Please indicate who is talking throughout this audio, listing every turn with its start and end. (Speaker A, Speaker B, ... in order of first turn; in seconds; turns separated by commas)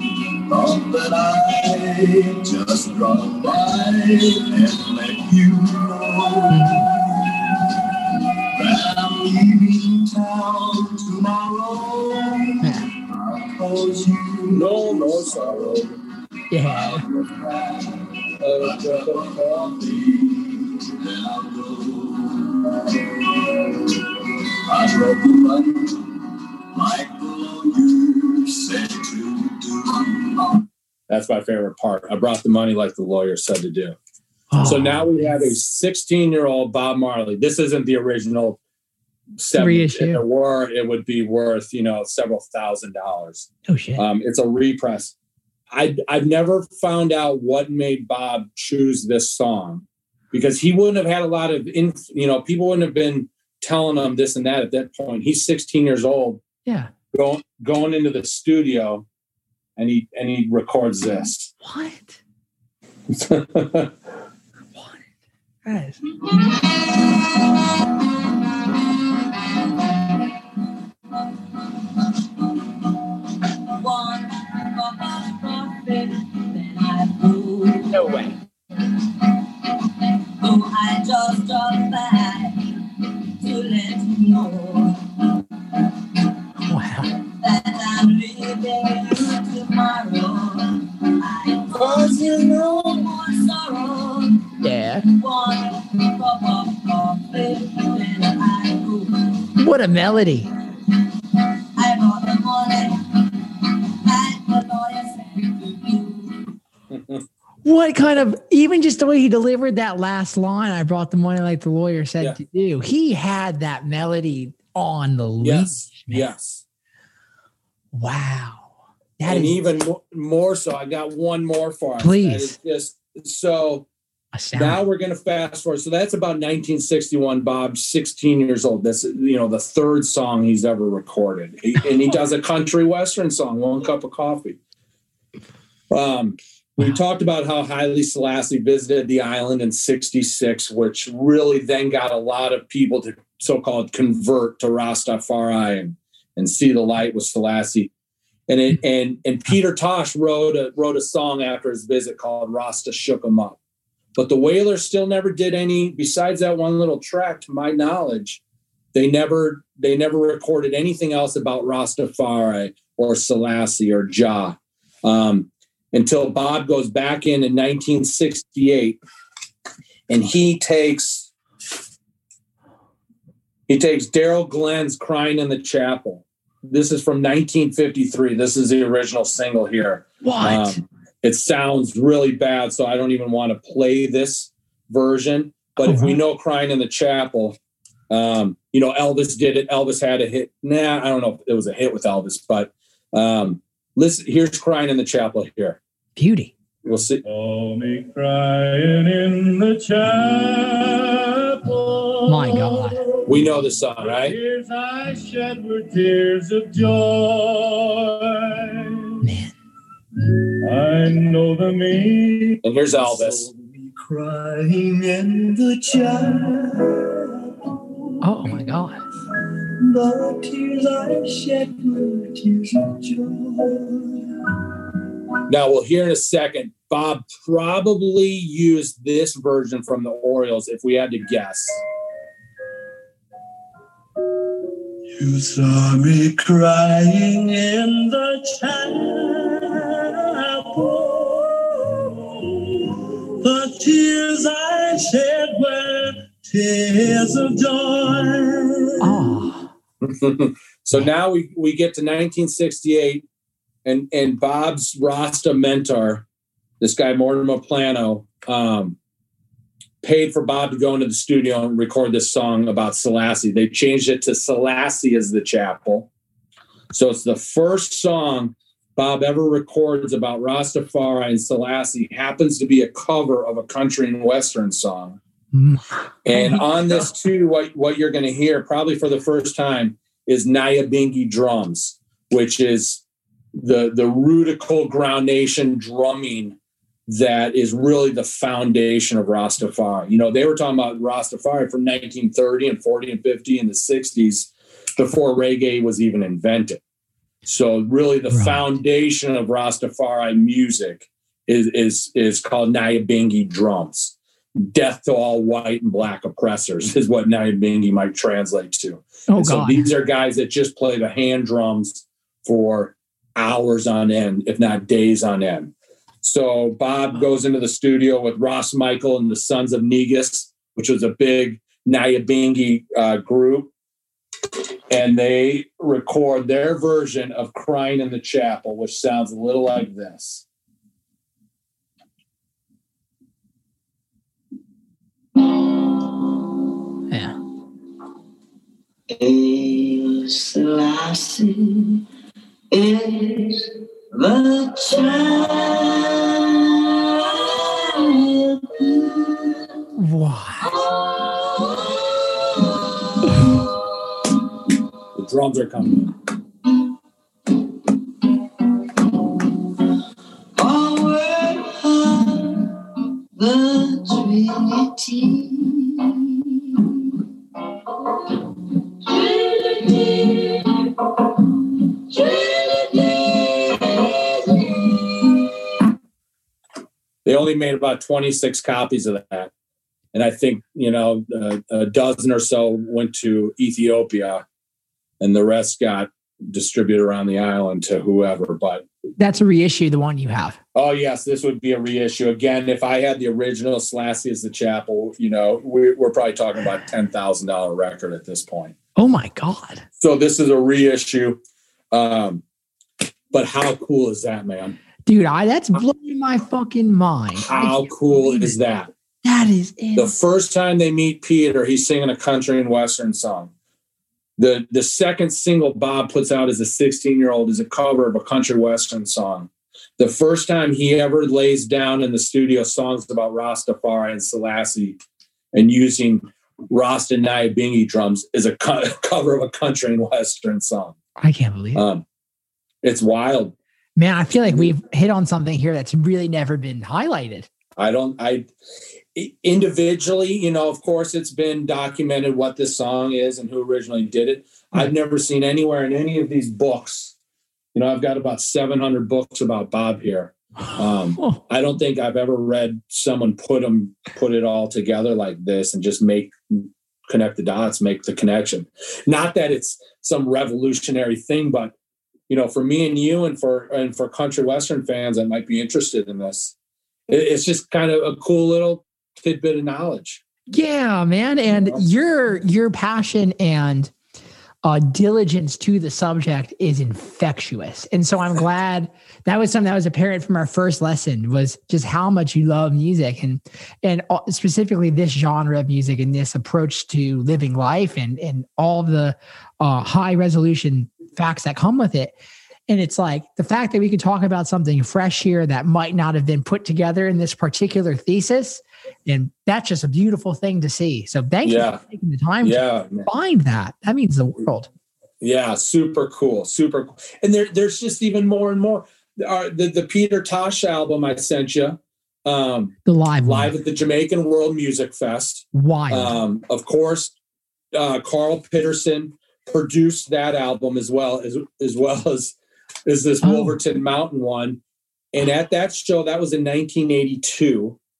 Speaker A: 0.5-7.0, Speaker B: 6.5-6.9, Speaker A: 8.5-12.6, Speaker B: 12.6-12.9, Speaker A: 13.1-15.8, Speaker C: 14.5-15.5, Speaker B: 16.5-17.0, Speaker A: 16.6-18.0, Speaker C: 18.4-19.5, Speaker A: 18.5-23.8, Speaker A: 24.7-26.0, Speaker A: 26.7-30.3, Speaker C: 31.1-34.0, Speaker B: 34.5-35.3, Speaker C: 34.6-38.6, Speaker C: 39.4-45.1, Speaker B: 39.5-40.2, Speaker B: 43.7-44.0, Speaker C: 45.7-56.4, Speaker B: 56.6-56.9, Speaker C: 57.1-59.0, Speaker C: 59.8-61.5, Speaker B: 61.6-62.2, Speaker C: 63.1-63.9, Speaker B: 64.8-65.0, Speaker B: 65.6-66.0, Speaker D: 73.7-78.3, Speaker B: 77.9-78.3, Speaker D: 80.4-82.7, Speaker D: 83.4-85.0, Speaker B: 86.7-87.1, Speaker D: 87.3-99.4, Speaker E: 91.9-92.1, Speaker B: 94.6-95.0, Speaker B: 99.6-100.5, Speaker D: 101.7-103.3, Speaker D: 104.0-106.5, Speaker C: 106.9-107.2, Speaker B: 107.6-116.3, Speaker C: 115.4-116.6, Speaker B: 117.9-119.6, Speaker C: 119.2-123.9, Speaker B: 122.0-122.5, Speaker B: 124.3-124.8, Speaker C: 124.5-134.6, Speaker C: 135.9-147.9, Speaker C: 148.5-153.6, Speaker C: 154.2-158.4, Speaker C: 158.9-169.0, Speaker C: 170.1-171.3, Speaker C: 173.7-187.6, Speaker B: 180.2-180.8, Speaker B: 185.8-186.2, Speaker C: 188.1-195.8, Speaker B: 196.2-196.5, Speaker C: 196.8-197.2, Speaker E: 197.2-209.3, Speaker B: 202.2-203.0, Speaker C: 203.3-204.4, Speaker B: 209.2-209.5, Speaker E: 210.6-217.4, Speaker C: 212.6-213.4, Speaker B: 218.2-219.0, Speaker E: 219.8-224.2, Speaker C: 225.5-231.8, Speaker E: 235.2-249.3, Speaker B: 249.0-249.7, Speaker C: 250.0-253.2, Speaker C: 253.8-256.2, Speaker C: 256.8-259.0, Speaker C: 260.0-266.1, Speaker C: 266.9-275.2, Speaker B: 275.5-277.1, Speaker C: 276.2-283.0, Speaker C: 283.5-296.8, Speaker C: 297.4-323.7, Speaker B: 298.3-298.6, Speaker B: 309.3-309.9, Speaker C: 324.9-330.4, Speaker B: 337.1-337.4, Speaker D: 339.1-342.0, Speaker D: 342.7-346.2, Speaker D: 347.3-349.5, Speaker B: 349.9-350.6, Speaker D: 350.6-352.7, Speaker D: 353.2-353.8, Speaker C: 355.1-356.1, Speaker D: 360.6-362.7, Speaker D: 363.4-366.3, Speaker D: 369.0-370.9, Speaker D: 371.8-375.5, Speaker C: 377.2-379.5, Speaker C: 380.1-384.4, Speaker C: 385.2-388.8, Speaker B: 389.2-390.6, Speaker C: 390.7-398.7, Speaker B: 398.9-399.8, Speaker C: 400.0-401.4, Speaker C: 401.9-402.4, Speaker C: 403.3-404.8, Speaker B: 405.1-408.5, Speaker C: 407.4-408.9, Speaker B: 409.2-410.1, Speaker C: 409.9-413.5, Speaker C: 414.4-425.0, Speaker C: 425.5-430.9, Speaker B: 431.2-431.9, Speaker C: 431.7-432.0, Speaker C: 432.8-433.5, Speaker B: 433.9-437.5, Speaker C: 434.4-434.7, Speaker C: 437.8-438.5, Speaker C: 439.1-447.1, Speaker C: 447.7-461.7, Speaker C: 462.3-466.5, Speaker C: 467.1-470.2, Speaker B: 470.5-473.9, Speaker B: 474.6-492.1, Speaker B: 492.7-504.7, Speaker C: 501.4-501.8, Speaker C: 502.4-503.1, Speaker C: 505.2-517.1, Speaker B: 512.8-513.5, Speaker B: 515.5-516.2, Speaker C: 517.7-522.3, Speaker C: 522.9-524.6, Speaker B: 523.2-523.5, Speaker C: 525.1-527.8